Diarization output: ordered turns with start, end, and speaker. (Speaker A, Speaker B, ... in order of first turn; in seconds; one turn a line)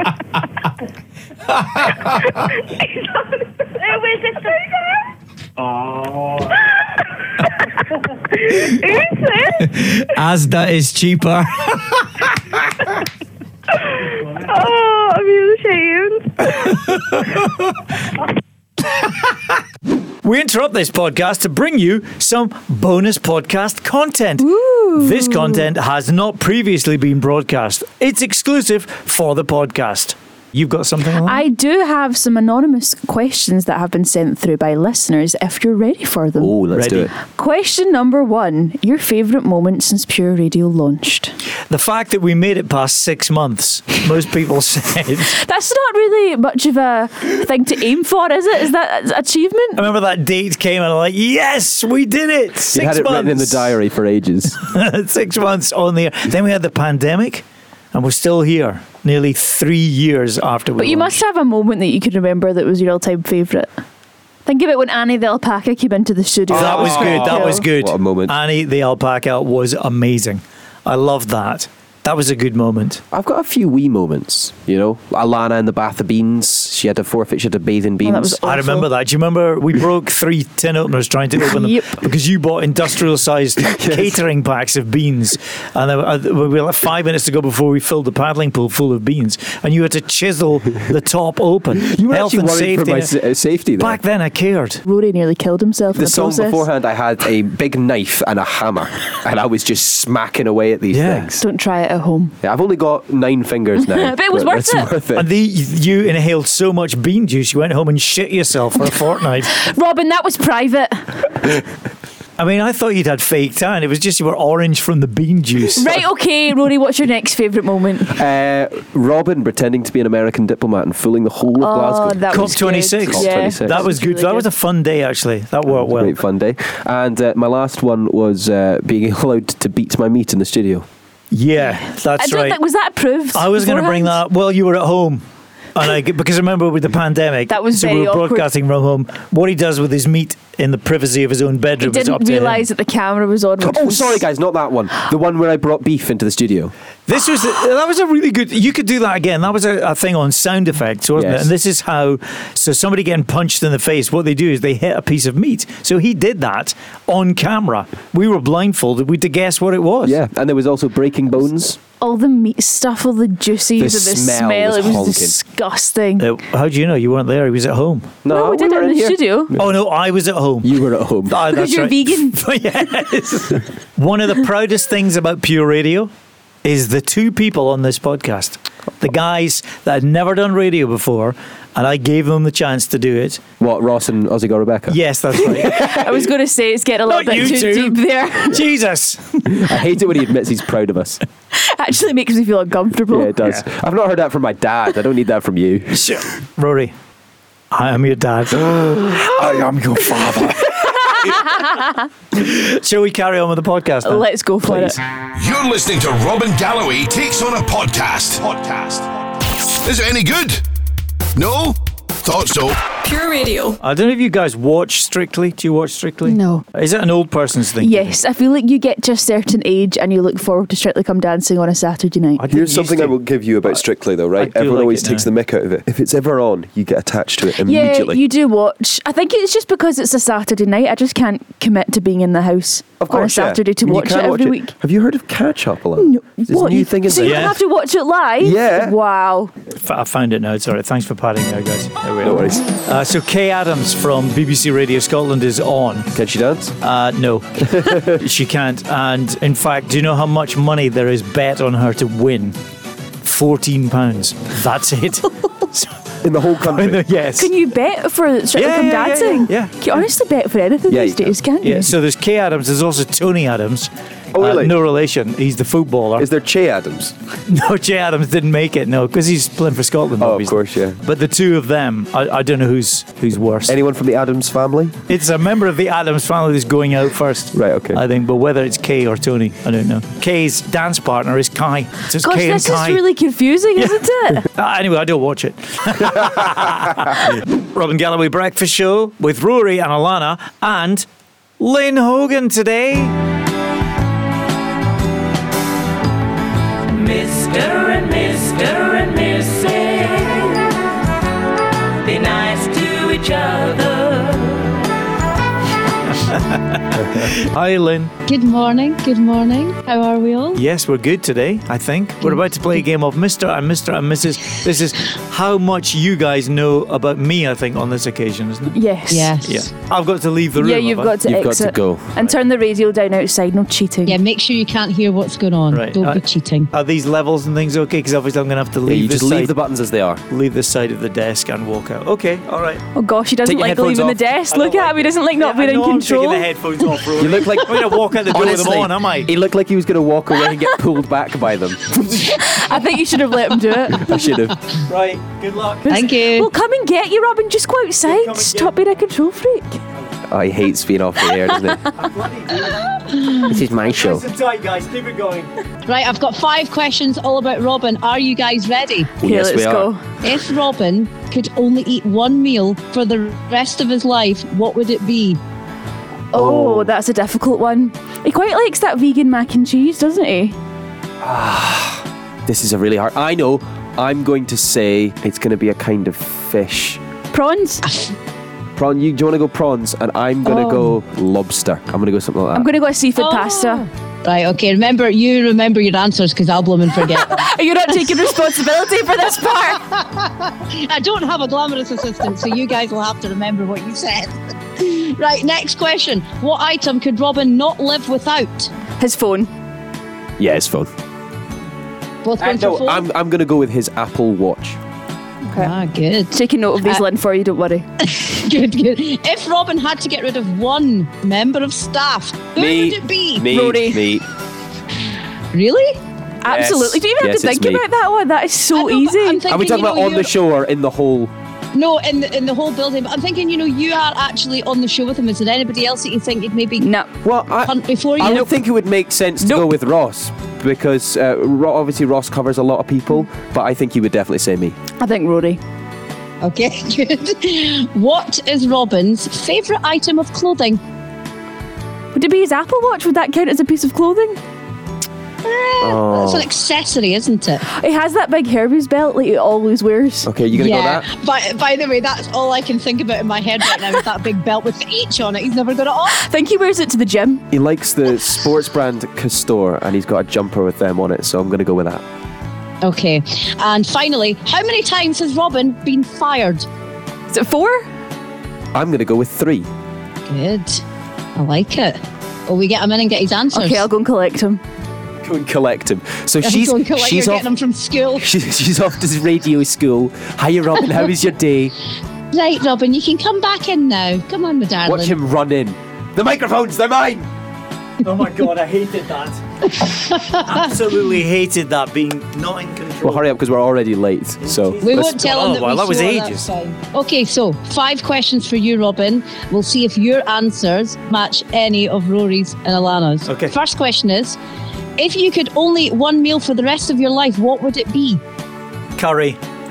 Speaker A: 3.7-4.8
Speaker A: 8.3-9.7
Speaker B: 9.6-12.3
Speaker A: 13.8-16.7
Speaker B: 16.5-17.7
Speaker B: 20.2-31.4
Speaker C: 24.4-25.7
Speaker C: 31.2-36.5
Speaker D: 36.4-37.1
Speaker B: 36.7-37.1
Speaker C: 37.2-41.3
Speaker B: 41.7-45.4
Speaker C: 45.3-49.8
Speaker B: 49.8-53.7
Speaker D: 52.7-54.6
Speaker B: 54.6-61.2
Speaker C: 60.8-63.7
Speaker C: 64.5-67.7
Speaker D: 66.5-68.4
Speaker B: 66.5-73.0
Speaker D: 73.1-78.4
Speaker C: 78.0-78.9
Speaker B: 78.4-93.1
Speaker C: 81.4-82.0
Speaker D: 83.6-84.2
Speaker D: 91.8-94.0
Speaker B: 93.8-94.8
Speaker C: 94.8-96.6
Speaker D: 95.9-101.4
Speaker B: 100.9-101.3
Speaker C: 101.4-102.3
Speaker D: 102.4-105.3
Speaker C: 103.8-104.9
Speaker B: 105.2-109.5
Speaker C: 109.5-111.2
Speaker B: 112.4-116.0
Speaker C: 115.8-118.2
Speaker D: 118.1-123.9
Speaker C: 121.6-124.5
Speaker B: 122.3-126.2
Speaker D: 125.7-130.9
Speaker B: 131.3-132.6
Speaker C: 131.6-134.2
Speaker B: 133.3-135.2
Speaker B: 135.8-142.7
Speaker C: 137.5-138.5
Speaker C: 141.8-144.2
Speaker D: 143.6-146.7
Speaker B: 147.1-160.2
Speaker D: 151.2-151.5
Speaker D: 160.0-161.8
Speaker C: 162.0-166.3
Speaker D: 163.8-165.4
Speaker B: 166.2-168.2
Speaker D: 168.2-169.7
Speaker C: 168.3-169.6
Speaker B: 169.6-170.7
Speaker D: 170.6-171.4
Speaker B: 171.3-176.1
Speaker C: 171.4-172.4
Speaker B: 176.6-183.4
Speaker D: 183.6-185.9
Speaker B: 184.9-185.9
Speaker C: 185.6-188.6
Speaker B: 187.1-189.6
Speaker D: 189.4-191.2
Speaker C: 191.5-193.4
Speaker D: 193.1-196.0
Speaker B: 195.9-196.9
Speaker B: 197.7-201.5
Speaker D: 198.7-199.3
Speaker B: 202.3-204.9
Speaker C: 204.0-205.0
Speaker E: 205.3-209.1
Speaker E: 209.7-210.6
Speaker E: 211.4-212.8
Speaker F: 213.0-213.8
Speaker B: 213.8-218.2
Speaker C: 216.2-216.7
Speaker C: 217.8-222.4
Speaker B: 222.4-223.8
Speaker D: 222.5-228.2
Speaker B: 224.4-225.3
Speaker C: 227.6-234.7
Speaker D: 233.0-237.6
Speaker C: 236.0-239.5
Speaker B: 237.2-237.6
Speaker D: 238.4-239.0
Speaker B: 239.8-246.1
Speaker D: 242.2-242.7
Speaker D: 246.1-246.7
Speaker B: 246.8-252.6
Speaker D: 247.6-248.2
Speaker B: 253.2-255.9
Speaker D: 256.2-257.1
Speaker B: 256.6-257.5
Speaker C: 257.4-261.9
Speaker B: 258.6-260.0
Speaker D: 260.9-261.4
Speaker B: 261.6-266.3
Speaker D: 264.3-264.8
Speaker D: 266.2-267.1
Speaker B: 267.5-273.8
Speaker D: 270.2-271.0
Speaker D: 273.7-275.0
Speaker B: 275.1-283.0
Speaker D: 277.5-278.0
Speaker C: 282.2-284.5
Speaker B: 283.8-291.1
Speaker B: 291.6-293.1
Speaker F: 297.1-300.1
Speaker F: 302.2-304.1
Speaker B: 306.1-308.1
Speaker G: 308.3-310.6
Speaker B: 310.6-318.8
Speaker C: 318.7-319.4
Speaker G: 319.1-319.6
Speaker B: 319.4-321.2
Speaker C: 320.6-324.2
Speaker D: 321.2-322.2
Speaker G: 324.1-326.7
Speaker B: 325.7-329.6
Speaker D: 328.9-330.2
Speaker B: 330.3-332.8
Speaker C: 332.9-336.5
Speaker D: 333.4-334.2
Speaker B: 334.5-339.3
Speaker D: 337.2-342.5
Speaker C: 342.3-344.3
Speaker D: 343.9-344.6
Speaker B: 344.9-346.1
Speaker G: 345.9-346.5
Speaker C: 345.9-349.8
Speaker B: 348.1-348.8
Speaker D: 350.3-351.9
Speaker B: 351.9-352.9
Speaker D: 353.3-354.3
Speaker B: 353.6-355.5
Speaker G: 355.9-359.1
Speaker D: 359.2-359.9
Speaker C: 359.2-360.1
Speaker G: 360.2-365.4
Speaker C: 366.3-370.6
Speaker D: 366.3-366.9
Speaker D: 371.2-377.0
Speaker C: 377.3-377.9
Speaker G: 377.9-378.1
Speaker D: 378.8-382.7
Speaker C: 382.6-383.9
Speaker G: 383.2-388.4
Speaker C: 387.1-389.8
Speaker G: 389.7-398.7
Speaker C: 399.0-399.5
Speaker D: 400.4-400.9
Speaker G: 402.2-403.1
Speaker D: 402.4-404.8
Speaker G: 405.6-407.1
Speaker C: 406.3-407.9
Speaker G: 408.1-413.5
Speaker D: 412.6-414.3
Speaker C: 413.5-414.1
Speaker G: 415.5-416.0
Speaker C: 416.4-419.5
Speaker D: 416.4-417.9
Speaker G: 418.7-420.4
Speaker D: 419.5-421.3
Speaker G: 421.7-426.9
Speaker C: 426.8-427.1
Speaker D: 427.2-434.8
Speaker G: 427.6-428.5
Speaker C: 429.4-429.7
Speaker C: 435.0-435.6
Speaker G: 436.4-440.8
Speaker C: 442.1-444.4
Speaker G: 445.4-447.6
Speaker D: 445.8-446.5
Speaker C: 447.7-450.3
Speaker D: 450.2-451.1
Speaker G: 450.5-456.2
Speaker C: 456.1-457.4
Speaker D: 457.5-462.0
Speaker G: 462.8-466.7
Speaker C: 467.3-467.9
Speaker D: 468.7-469.7
Speaker G: 470.3-470.8
Speaker G: 471.4-473.9
Speaker C: 473.5-474.6
Speaker D: 475.2-477.5
Speaker G: 476.4-478.3
Speaker D: 478.2-481.7
Speaker G: 482.3-485.2
Speaker D: 484.8-487.3
Speaker B: 488.0-489.4
Speaker B: 490.4-493.3
Speaker D: 493.0-495.1
Speaker B: 494.4-496.5
Speaker G: 494.8-504.4
Speaker B: 503.3-503.6
Speaker G: 505.0-508.2
Speaker B: 509.0-509.4